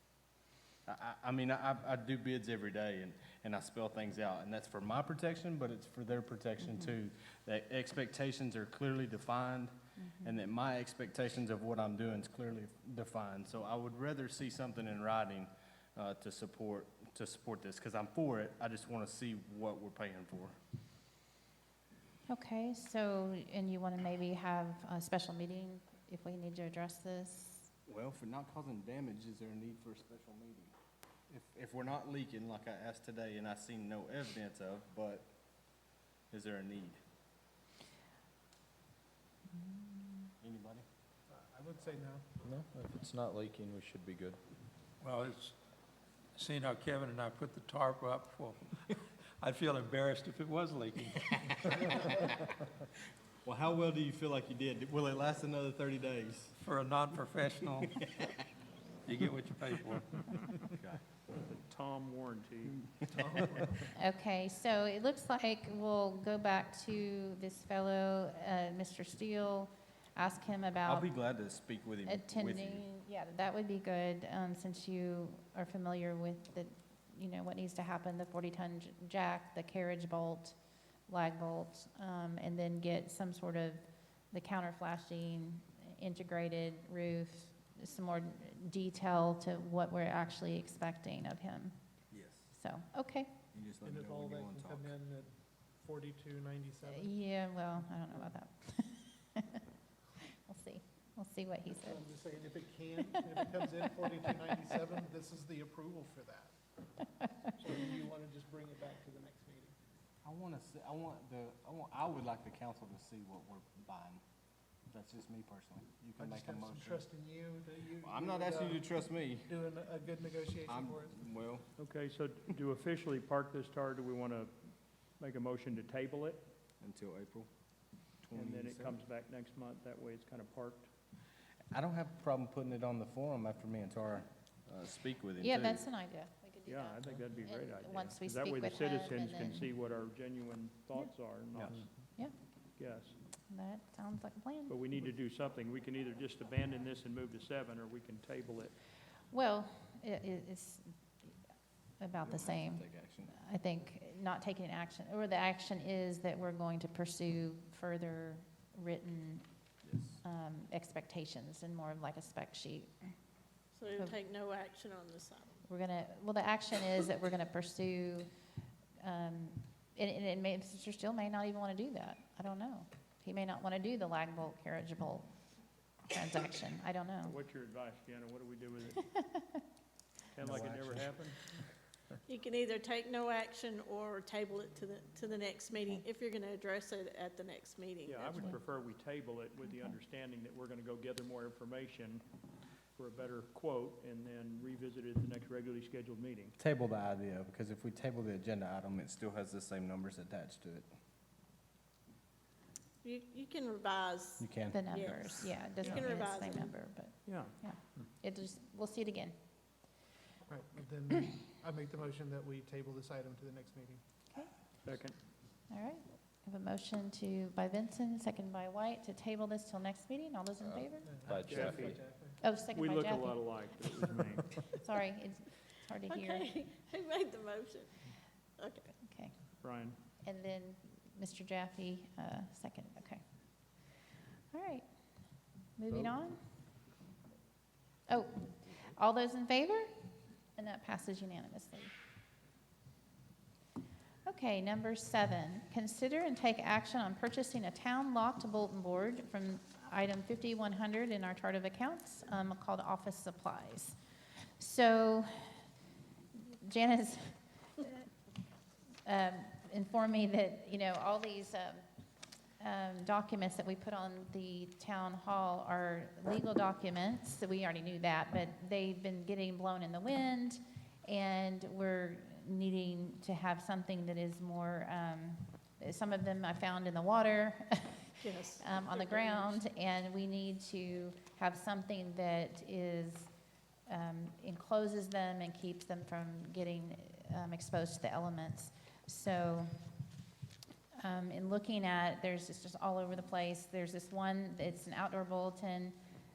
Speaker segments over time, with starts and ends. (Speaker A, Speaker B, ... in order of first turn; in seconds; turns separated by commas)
Speaker A: 0.9-20.6, Speaker B: 10.0-10.4, Speaker B: 22.3-27.7, Speaker A: 27.9-30.8, Speaker A: 31.3-35.3, Speaker A: 36.3-37.0, Speaker B: 39.5-40.3, Speaker A: 40.4-40.9, Speaker C: 41.3-42.4, Speaker D: 42.5-44.4, Speaker E: 45.0-45.5, Speaker E: 46.4-52.1, Speaker A: 53.5-56.5, Speaker E: 56.6-58.1, Speaker E: 59.1-60.1, Speaker F: 61.4-63.0, Speaker C: 63.1-63.8, Speaker B: 64.0-71.1, Speaker A: 70.9-72.9, Speaker B: 72.1-80.6, Speaker B: 81.1-91.8, Speaker A: 92.1-92.5, Speaker B: 92.5-93.4, Speaker A: 93.5-94.9, Speaker C: 93.8-97.1, Speaker B: 96.9-99.7, Speaker B: 100.2-102.0, Speaker C: 101.8-106.5, Speaker C: 107.5-109.7, Speaker A: 110.2-114.2, Speaker A: 114.9-117.0, Speaker C: 116.2-121.2, Speaker A: 118.0-119.5, Speaker A: 120.7-121.7, Speaker F: 121.8-126.4, Speaker A: 126.8-127.5, Speaker A: 128.2-129.0, Speaker F: 128.3-130.9, Speaker A: 131.7-135.9, Speaker B: 135.4-139.7, Speaker F: 136.7-141.9, Speaker F: 142.8-143.2, Speaker B: 143.5-144.8, Speaker F: 144.7-148.8, Speaker B: 149.3-151.3, Speaker B: 152.0-159.5, Speaker A: 152.2-153.3, Speaker A: 159.8-160.2, Speaker B: 160.2-163.1, Speaker G: 163.8-165.5, Speaker B: 163.9-164.2, Speaker B: 165.7-168.3, Speaker B: 169.0-175.3, Speaker B: 176.1-177.3, Speaker F: 177.2-179.0, Speaker B: 179.1-179.6, Speaker F: 180.3-181.4, Speaker G: 182.3-188.5, Speaker F: 188.1-192.2, Speaker B: 189.7-189.9, Speaker F: 193.0-196.6, Speaker A: 196.6-200.9, Speaker G: 203.0-206.8, Speaker A: 204.4-204.9, Speaker B: 204.7-209.4, Speaker F: 205.8-206.1, Speaker F: 207.2-207.6, Speaker C: 210.5-214.0, Speaker F: 214.8-215.2, Speaker B: 215.7-221.3, Speaker C: 221.1-222.4, Speaker D: 221.3-222.0, Speaker F: 221.5-222.0, Speaker E: 221.6-221.9, Speaker B: 222.4-223.7, Speaker F: 222.7-224.5, Speaker B: 224.8-226.5, Speaker G: 226.1-227.9, Speaker G: 228.6-228.9, Speaker B: 228.9-229.4, Speaker F: 229.6-230.0, Speaker B: 230.2-233.2, Speaker B: 234.5-234.9, Speaker B: 235.8-236.4, Speaker B: 238.1-241.9, Speaker B: 244.3-255.6, Speaker B: 256.4-258.1, Speaker B: 259.1-261.8, Speaker B: 262.6-283.3, Speaker G: 278.2-279.6, Speaker B: 283.9-289.9, Speaker B: 291.0-296.0